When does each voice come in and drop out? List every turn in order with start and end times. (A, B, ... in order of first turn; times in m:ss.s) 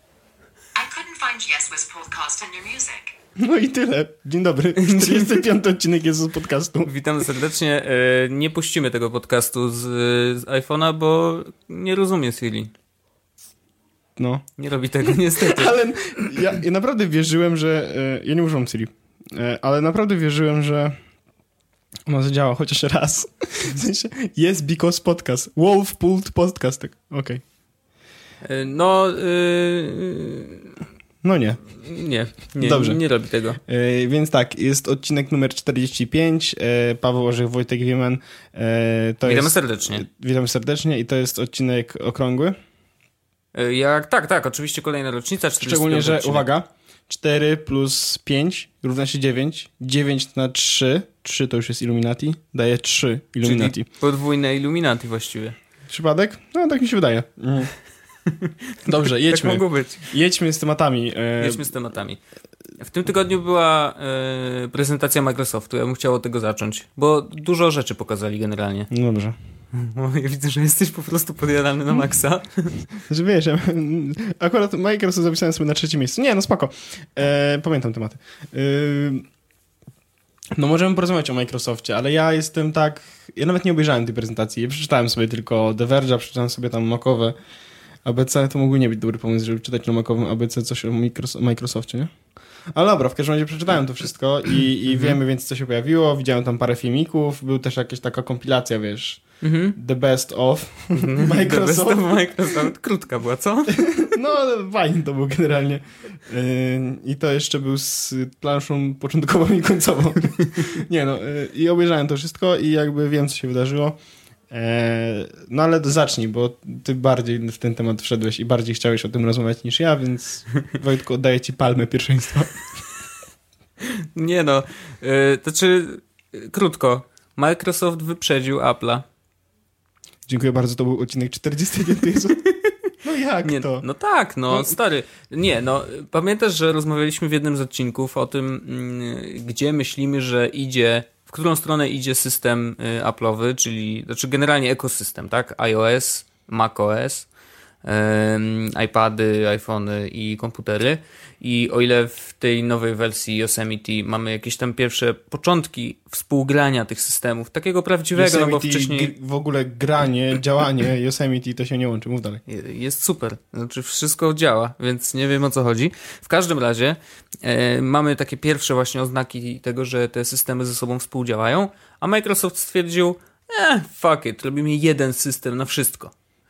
0:00.8-0:03.1 A
0:03.4-0:06.9 B
0:04.8-0:05.4 C
0:06.8-0:12.7 C
0:14.2-0:14.5 B
0:14.6-0:15.8 C
0:15.0-0:21.0 B
0:22.1-0:27.4 B
0:28.4-0:30.7 C
0:31.2-0:31.6 B
0:31.8-0:33.6 C
0:32.6-0:33.0 B
0:33.7-0:42.6 B
0:39.2-0:40.0 C
0:43.5-0:46.5 C
0:45.6-0:53.9 B
0:53.4-0:55.6 C
0:55.9-0:57.7 B
0:58.3-0:58.5 C
0:58.8-1:01.7 B
0:59.3-1:00.1 C
1:01.4-1:02.2 C
1:02.8-1:08.9 C
1:08.9-1:09.4 B
1:09.7-1:12.8 C
1:13.0-1:19.2 B
1:20.6-1:27.3 B
1:28.0-1:32.1 B
1:32.7-1:42.7 B
1:34.9-1:35.2 C
1:39.4-1:39.8 C
1:40.9-1:43.8 C
1:43.7-1:54.0 B
1:54.5-2:02.6 B
2:04.1-2:09.0 C
2:10.3-2:12.4 B
2:13.0-2:13.8 B
2:13.4-2:27.3 C
2:14.5-2:14.8 B
2:27.8-2:39.1 C
2:38.1-2:42.4 B
2:42.5-2:56.1 C